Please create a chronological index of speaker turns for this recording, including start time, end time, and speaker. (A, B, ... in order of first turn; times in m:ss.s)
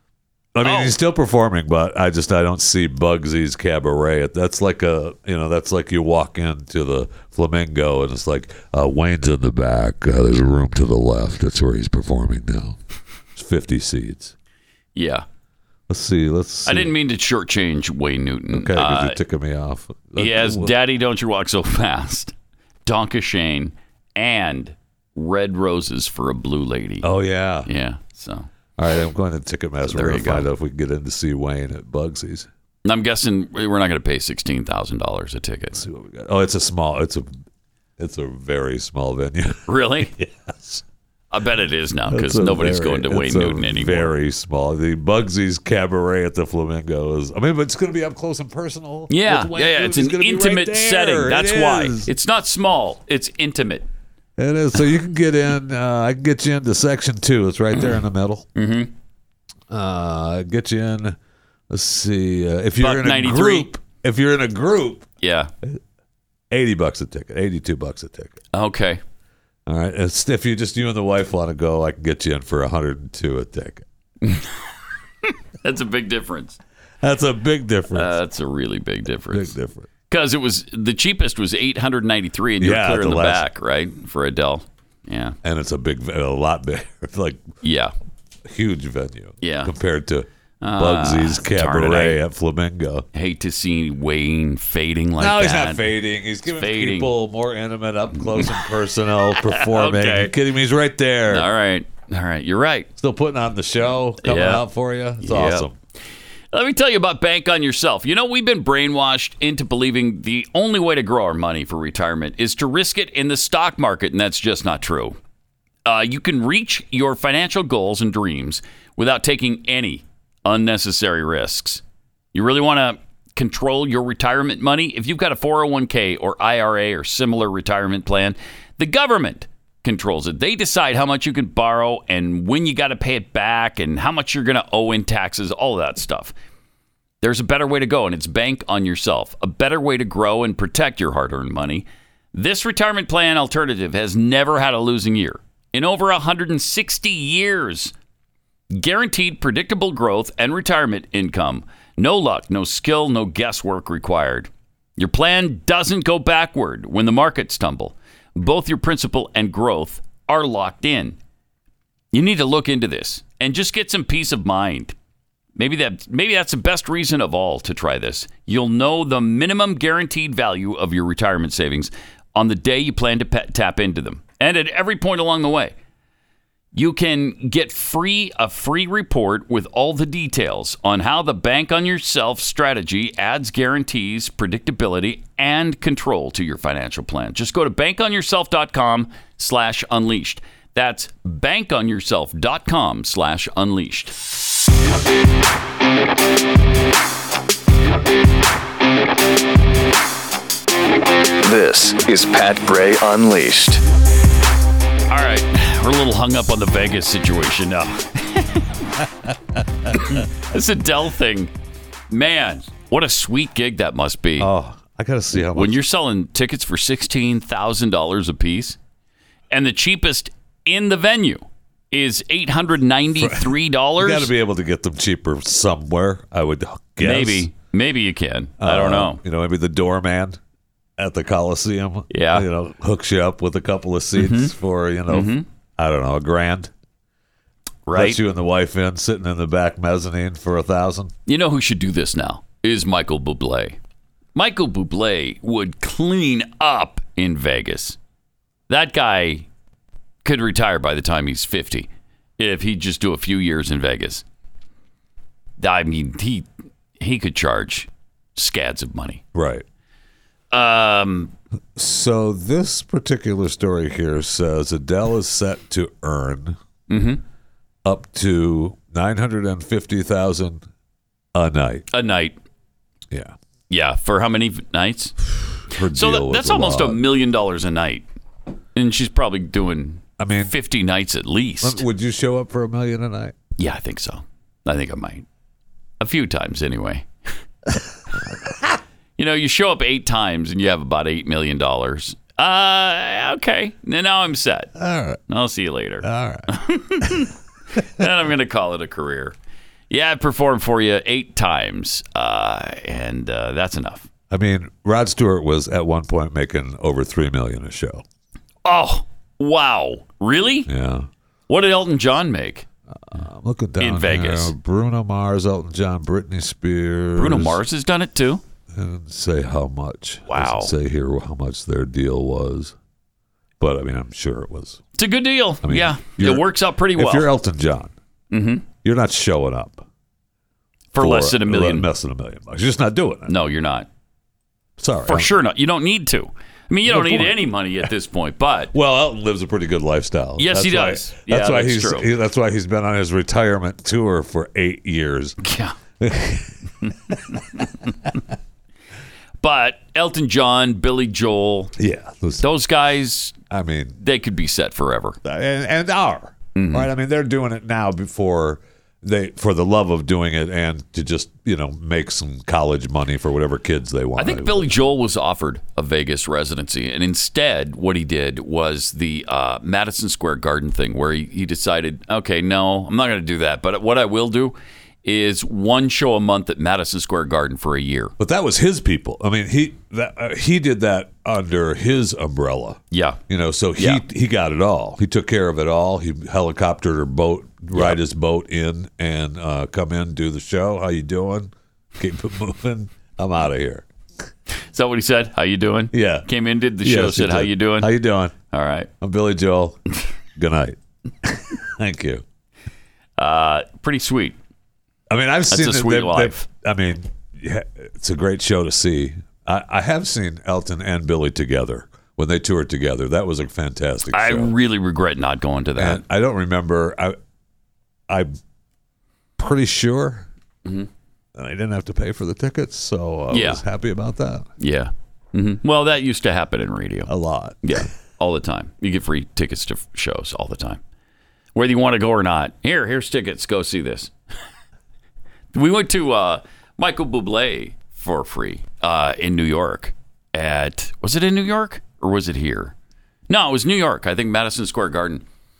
0:00.5-0:12.8 A
0:00.6-0:01.0 B
0:13.3-0:14.3 A
0:14.9-0:15.2 B
0:15.9-0:16.9 A
0:16.6-0:19.2 B
0:18.5-0:20.7 A
0:20.2-0:22.3 B
0:22.8-0:27.1 B
0:27.0-0:27.7 A
0:27.6-0:28.5 B
0:28.8-0:32.5 A
0:29.8-0:30.5 B
0:32.8-0:35.8 B
0:35.7-0:37.3 A
0:38.0-0:40.8 A
0:39.7-0:40.1 B
0:41.3-0:44.1 B
0:42.1-0:52.1 A
0:49.1-0:53.8 B
0:54.4-0:58.4 A
0:58.6-0:58.9 B
0:59.7-1:01.2 A
1:01.7-1:05.1 A
1:02.8-1:03.7 B
1:05.2-1:05.5 B
1:06.5-1:08.4 A
1:08.5-1:09.0 B
1:09.6-1:13.8 A
1:14.2-1:14.5 B
1:15.2-1:16.6 B
1:17.0-1:18.1 A
1:17.9-1:19.5 B
1:19.3-1:19.9 A
1:20.1-1:25.4 B
1:22.6-1:23.4 A
1:25.4-1:27.5 A
1:27.6-1:27.9 B
1:28.4-1:33.0 A
1:29.4-1:29.7 B
1:30.6-1:32.2 B
1:33.1-1:35.9 B
1:35.2-1:41.5 A
1:36.5-1:37.1 B
1:38.2-1:38.6 B
1:39.4-1:40.3 B
1:41.3-1:42.9 B
1:43.0-1:45.7 A
1:44.2-1:44.6 B
1:45.2-1:45.7 B
1:46.5-1:55.2 B
1:55.8-2:01.8 B
2:02.3-2:16.3 B
2:17.2-2:27.9 B
2:28.7-2:41.2 B
2:42.1-2:44.9 B
2:45.6-2:55.7 B
2:56.7-3:14.2 B
3:21.4-3:23.8 C
3:25.1-3:28.7 B
3:29.9-3:30.2 A
3:29.9-3:31.5 B
3:32.1-3:34.5 B
3:34.4-3:35.8 A
3:35.5-3:38.8 B
3:39.5-3:44.3 B
3:43.2-3:47.5 A
3:47.0-3:49.2 B
3:48.6-3:50.4 A
3:51.0-3:56.7 A
3:52.1-3:52.5 B
3:54.2-3:54.5 B
3:55.1-3:55.4 B
3:57.8-3:58.2 B
3:57.9-4:01.1 A
4:01.2-4:03.8 B
4:04.3-4:08.0 B
4:08.7-4:09.4 B
4:10.2-4:14.2 B
4:15.6-4:16.5 B
4:17.0-4:19.2 B
4:19.3-4:19.6 A
4:20.5-4:21.3 B
4:21.8-4:26.6 A
4:26.9-4:27.2 B
4:27.8-4:30.6 A
4:31.3-4:31.9 A
4:31.9-4:32.4 B
4:33.1-4:33.4 A
4:33.7-4:38.0 B
4:35.7-4:37.0 A
4:38.7-4:41.8 B
4:40.2-4:40.5 A
4:41.6-4:43.3 A
4:43.6-4:45.2 B
4:46.0-4:47.1 B
4:49.2-4:54.7 B
4:54.8-4:55.2 A
4:55.3-4:59.4 B
4:56.0-4:56.5 A
4:59.9-5:04.1 B
5:04.3-5:08.0 A
5:08.6-5:10.7 B
5:10.7-5:11.1 A
5:11.5-5:12.6 B
5:12.9-5:17.6 A
5:13.8-5:14.5 B
5:17.2-5:18.4 B
5:18.7-5:22.7 A
5:20.3-5:20.7 B
5:23.6-5:24.8 A
5:25.0-5:27.3 B
5:25.6-5:27.9 A
5:28.3-5:28.6 B
5:28.8-5:29.8 A
5:30.9-5:31.9 B
5:31.0-5:33.3 A
5:33.3-5:33.9 B
5:34.8-5:35.3 A
5:35.0-5:38.7 B
5:36.8-5:37.4 A
5:38.7-5:45.4 A
5:40.4-5:42.1 B
5:45.4-5:45.8 B
5:46.0-5:47.6 A
5:46.8-5:47.6 B
5:49.4-5:51.7 B
5:51.8-5:52.4 A
5:52.4-5:53.3 B
5:53.5-5:54.0 A
5:54.0-5:55.2 B
5:55.2-6:04.8 A
5:56.5-5:56.9 B
6:04.2-6:18.1 B
6:18.2-6:33.9 A
6:22.9-6:23.2 B
6:23.8-6:24.0 B
6:34.7-6:37.9 B
6:35.9-6:38.3 A
6:38.5-6:38.9 B
6:39.0-6:39.8 A
6:40.3-6:42.2 A
6:43.2-6:44.4 B
6:45.1-6:54.5 A
6:45.5-6:46.4 B
6:54.1-6:56.0 B
6:55.8-6:57.2 A
6:58.1-6:58.4 A
6:59.4-7:00.3 A
7:01.4-7:04.5 A
7:03.3-7:03.6 B
7:04.6-7:07.1 B
7:07.0-7:07.8 A
7:07.6-7:10.8 B
7:11.5-7:14.1 B
7:15.5-7:22.7 B
7:23.3-7:25.2 B